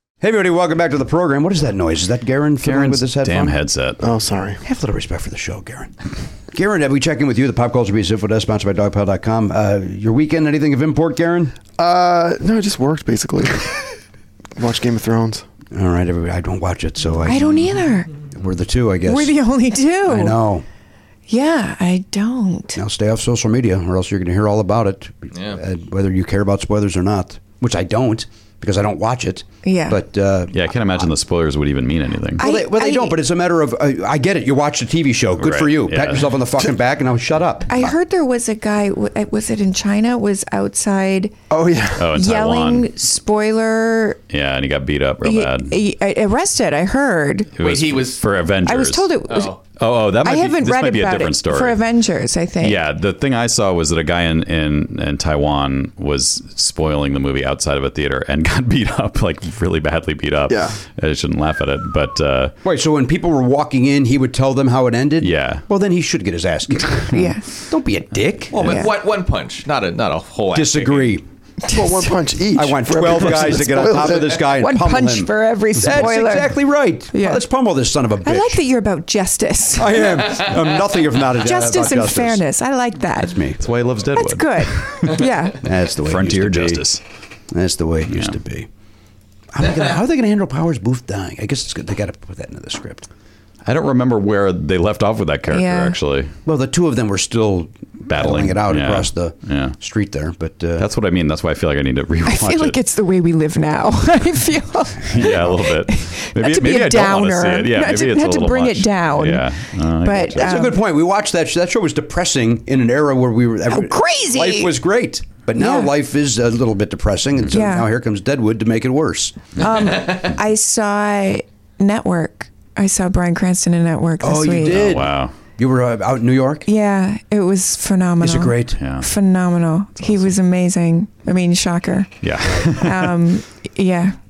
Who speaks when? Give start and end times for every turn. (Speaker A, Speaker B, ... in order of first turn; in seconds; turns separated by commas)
Speaker A: 0.2-3.6, Speaker B: 2.6-4.0, Speaker C: 4.0-4.6, Speaker A: 4.6-5.9, Speaker A: 6.5-11.6, Speaker C: 11.8-13.9, Speaker C: 14.6-15.4, Speaker A: 15.7-17.6, Speaker D: 17.2-18.1, Speaker A: 18.2-19.4, Speaker D: 19.1-20.4, Speaker A: 20.1-20.6, Speaker D: 21.3-22.8, Speaker A: 22.8-30.6, Speaker E: 25.3-25.6, Speaker D: 29.6-30.0, Speaker B: 30.5-32.4, Speaker D: 32.4-33.2, Speaker A: 32.4-37.9, Speaker B: 35.4-36.3, Speaker D: 37.7-41.4, Speaker C: 41.5-42.1, Speaker B: 42.0-42.9, Speaker D: 42.0-44.2, Speaker B: 44.3-45.8, Speaker D: 45.2-47.5, Speaker B: 47.6-49.1, Speaker E: 47.6-48.2, Speaker D: 48.6-49.5, Speaker E: 49.3-49.6, Speaker B: 49.8-51.8, Speaker D: 50.2-52.8, Speaker B: 52.6-62.5, Speaker C: 60.5-60.8, Speaker A: 62.6-68.8, Speaker B: 65.2-65.6, Speaker D: 67.1-67.5, Speaker E: 68.5-71.2, Speaker A: 70.5-71.2, Speaker D: 71.7-72.1, Speaker C: 71.7-74.5, Speaker A: 72.5-78.6, Speaker D: 74.5-77.4, Speaker D: 78.2-80.1, Speaker A: 79.8-82.4, Speaker D: 81.4-83.4, Speaker A: 83.2-83.6, Speaker B: 83.6-85.2, Speaker D: 84.1-85.6, Speaker A: 85.6-86.9, Speaker B: 86.0-87.0, Speaker A: 87.5-88.7, Speaker B: 88.1-88.4, Speaker A: 89.5-93.1, Speaker B: 93.7-96.3, Speaker D: 95.5-96.0, Speaker A: 96.5-100.9, Speaker B: 98.1-99.8, Speaker B: 100.8-102.8, Speaker D: 102.2-110.8, Speaker B: 105.0-110.5, Speaker A: 110.4-119.6, Speaker D: 113.7-114.7, Speaker D: 115.6-115.9, Speaker D: 117.5-117.9, Speaker D: 119.6-124.9, Speaker A: 124.2-126.7, Speaker B: 124.7-125.3, Speaker D: 126.7-134.2, Speaker A: 128.2-128.8, Speaker B: 128.8-129.1, Speaker B: 132.2-133.1